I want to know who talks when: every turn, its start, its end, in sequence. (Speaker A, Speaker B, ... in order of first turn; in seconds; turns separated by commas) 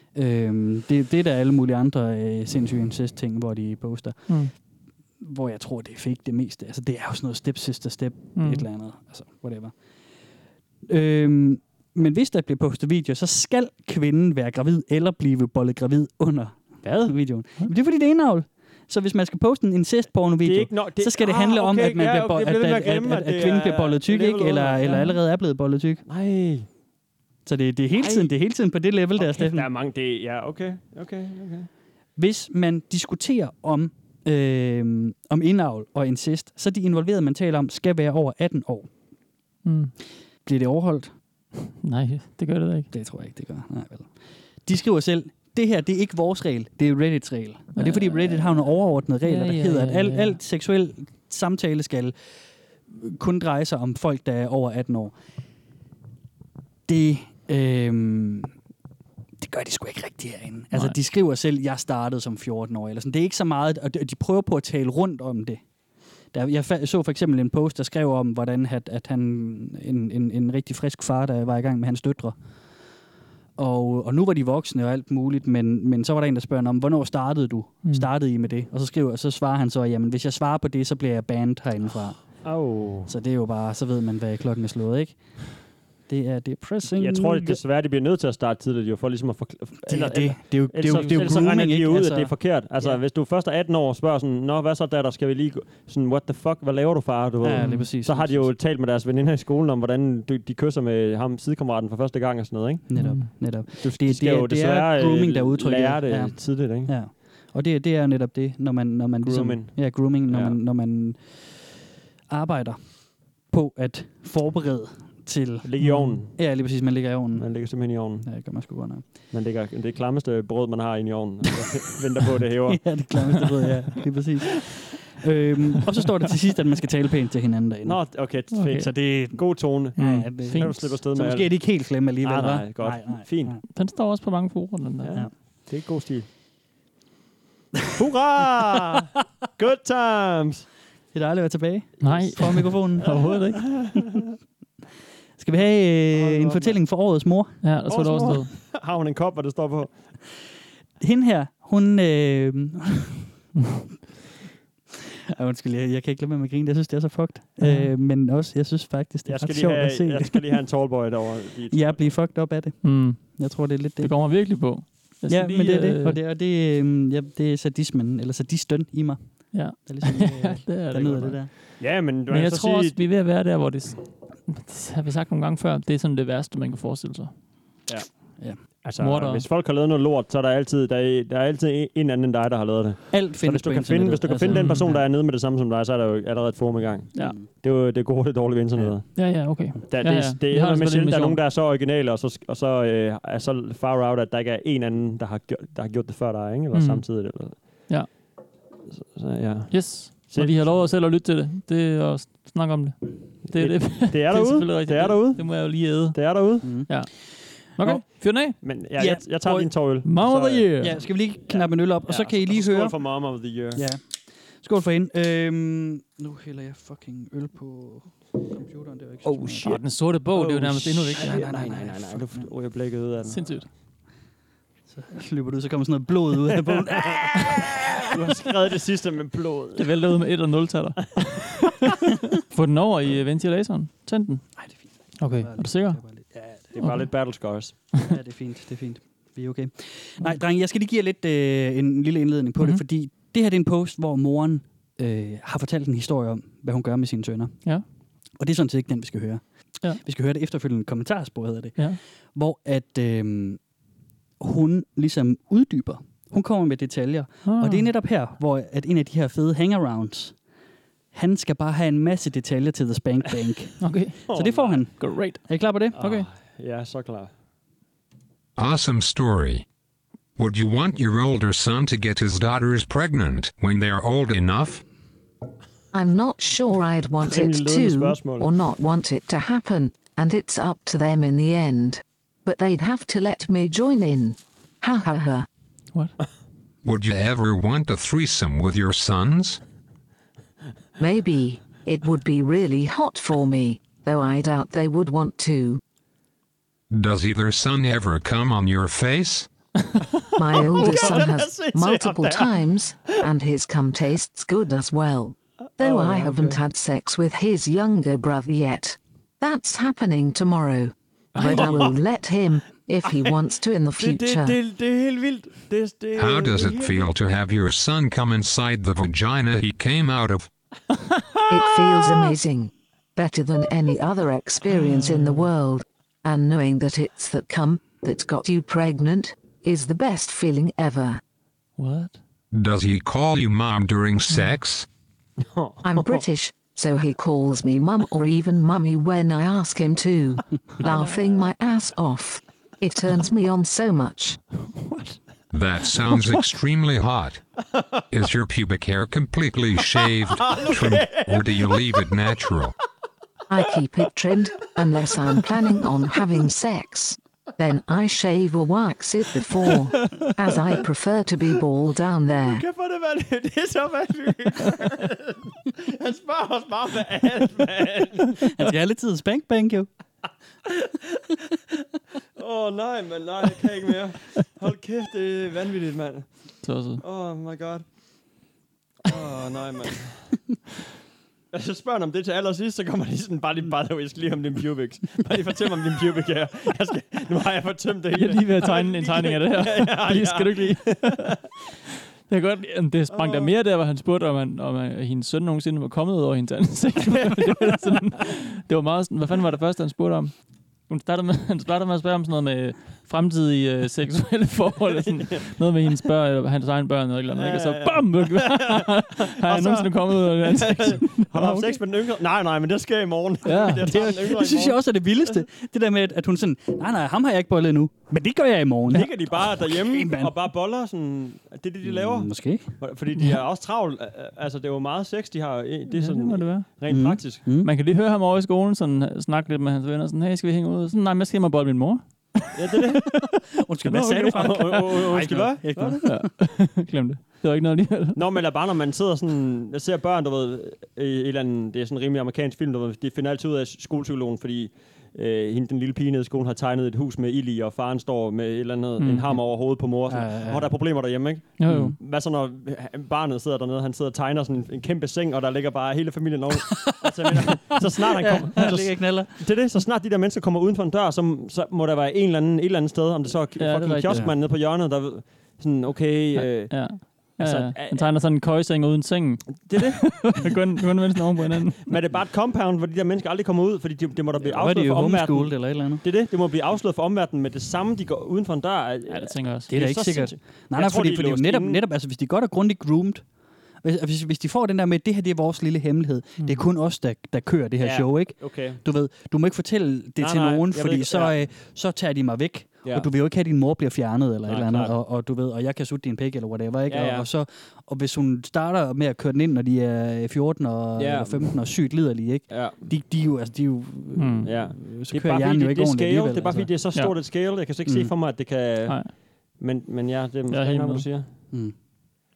Speaker A: 0.1-4.5, Speaker B: 4.3-4.5, Speaker A: 5.2-9.7, Speaker B: 8.3-8.7, Speaker A: 10.8-26.0, Speaker C: 20.4-25.1, Speaker B: 24.9-25.1, Speaker C: 26.1-26.7, Speaker A: 27.4-29.7, Speaker C: 27.9-28.3, Speaker C: 29.1-31.7, Speaker A: 32.1-38.9, Speaker B: 39.6-39.9, Speaker A: 40.4-41.1, Speaker B: 41.6-42.9, Speaker A: 42.9-52.1, Speaker B: 47.8-48.4, Speaker B: 49.2-50.4, Speaker A: 52.9-55.1, Speaker A: 56.9-58.5, Speaker A: 59.4-65.6, Speaker A: 66.3-72.3, Speaker A: 73.6-87.6, Speaker B: 77.8-78.1, Speaker C: 82.4-83.1, Speaker C: 86.9-106.9, Speaker A: 89.8-93.0, Speaker B: 90.9-91.4, Speaker A: 97.4-98.5, Speaker B: 97.6-97.9, Speaker A: 102.9-111.7, Speaker B: 102.9-103.3, Speaker C: 109.2-110.6, Speaker A: 112.3-113.0, Speaker A: 113.5-115.7, Speaker C: 115.6-116.4, Speaker B: 115.8-116.2, Speaker A: 116.3-119.0, Speaker C: 117.3-118.3, Speaker C: 119.3-123.0, Speaker A: 122.7-133.6, Speaker C: 127.8-133.5, Speaker B: 128.5-128.9, Speaker B: 130.0-130.9, Speaker B: 133.7-135.1, Speaker C: 135.0-136.2, Speaker C: 137.9-140.7, Speaker A: 141.1-143.3, Speaker B: 142.0-143.8, Speaker C: 143.6-144.0, Speaker A: 145.4-147.6, Speaker C: 146.1-146.8, Speaker B: 147.6-148.5, Speaker C: 147.9-150.0, Speaker A: 151.0-153.3, Speaker A: 155.3-160.6, Speaker B: 157.6-157.9, Speaker C: 159.3-162.1, Speaker A: 161.7-164.1, Speaker B: 162.8-166.2, Speaker A: 165.3-171.5, Speaker B: 169.5-177.3, Speaker C: 171.8-173.0, Speaker C: 178.8-197.8, Speaker B: 179.0-179.4, Speaker A: 183.1-185.0, Speaker B: 184.5-184.9, Speaker A: 187.2-187.5, Speaker B: 189.1-191.4, Speaker B: 196.7-197.2, Speaker C: 198.9-200.7, Speaker B: 199.7-206.2, Speaker C: 203.5-206.7, Speaker A: 206.6-207.2, Speaker B: 206.9-208.5, Speaker A: 207.8-208.0, Speaker C: 208.6-210.8, Speaker A: 209.0-209.7, Speaker B: 210.0-211.0, Speaker A: 210.8-213.0, Speaker C: 211.5-213.9, Speaker A: 213.7-222.5, Speaker B: 219.5-221.4, Speaker C: 221.2-223.4, Speaker B: 223.2-223.7, Speaker A: 224.9-228.4, Speaker C: 228.1-229.9, Speaker B: 229.8-231.7, Speaker B: 232.5-234.4, Speaker A: 234.6-236.8, Speaker B: 235.2-236.0, Speaker C: 236.7-237.8, Speaker B: 236.8-237.1, Speaker A: 238.0-247.6, Speaker A: 248.4-253.6, Speaker A: 254.4-260.4, Speaker B: 257.4-257.9, Speaker A: 261.1-266.1, Speaker B: 263.8-264.3, Speaker C: 264.3-264.8, Speaker B: 265.0-265.4, Speaker C: 265.9-267.3, Speaker D: 268.6-269.6, Speaker D: 270.4-274.8, Speaker E: 275.9-285.5, Speaker C: 277.2-278.5, Speaker D: 286.8-289.6, Speaker E: 291.0-295.8, Speaker D: 296.9-299.5, Speaker E: 300.4-314.6, Speaker C: 300.6-302.6, Speaker C: 305.8-306.6, Speaker C: 311.4-311.9, Speaker C: 314.0-317.1, Speaker D: 316.1-320.5, Speaker E: 321.5-331.2, Speaker B: 324.8-325.4, Speaker B: 331.8-332.2, Speaker D: 332.5-334.9, Speaker C: 335.5-336.2, Speaker E: 335.8-344.4, Speaker D: 345.5-347.4, Speaker D: 348.1-352.7, Speaker C: 350.4-351.9, Speaker E: 353.5-362.6, Speaker C: 359.8-360.7, Speaker C: 362.4-368.5, Speaker A: 368.4-369.9, Speaker C: 370.7-371.3, Speaker C: 372.4-376.3, Speaker B: 376.6-377.0, Speaker C: 377.0-377.8, Speaker C: 379.0-380.4, Speaker C: 381.5-391.4, Speaker B: 388.1-391.4, Speaker B: 392.3-411.8, Speaker C: 393.1-393.5, Speaker C: 397.1-397.8, Speaker C: 407.4-408.9, Speaker C: 409.4-414.8, Speaker A: 409.5-409.8, Speaker B: 413.4-413.8, Speaker A: 413.6-420.4, Speaker C: 418.9-427.4, Speaker A: 421.8-422.7, Speaker B: 425.9-426.7, Speaker A: 426.9-427.7, Speaker B: 427.6-432.5, Speaker C: 432.5-433.2, Speaker A: 433.6-436.3, Speaker C: 433.9-436.0, Speaker B: 436.0-438.2, Speaker C: 438.1-468.0, Speaker B: 449.0-449.3, Speaker A: 450.1-450.7, Speaker B: 451.6-451.9, Speaker A: 451.7-452.0, Speaker A: 456.8-457.5, Speaker A: 458.0-459.3, Speaker B: 463.6-464.2, Speaker A: 464.0-464.4, Speaker B: 466.3-472.0, Speaker C: 469.6-470.3, Speaker C: 471.8-481.8, Speaker A: 474.4-476.0, Speaker B: 479.1-479.7, Speaker A: 479.7-483.2, Speaker A: 483.8-506.8, Speaker B: 486.4-486.6, Speaker C: 487.8-488.8, Speaker C: 490.2-491.4, Speaker C: 494.4-494.9, Speaker C: 496.9-497.3, Speaker C: 501.0-501.6, Speaker C: 502.5-502.9, Speaker B: 504.2-504.5, Speaker C: 504.4-511.3, Speaker A: 507.9-508.1, Speaker B: 508.9-509.1, Speaker B: 510.5-511.1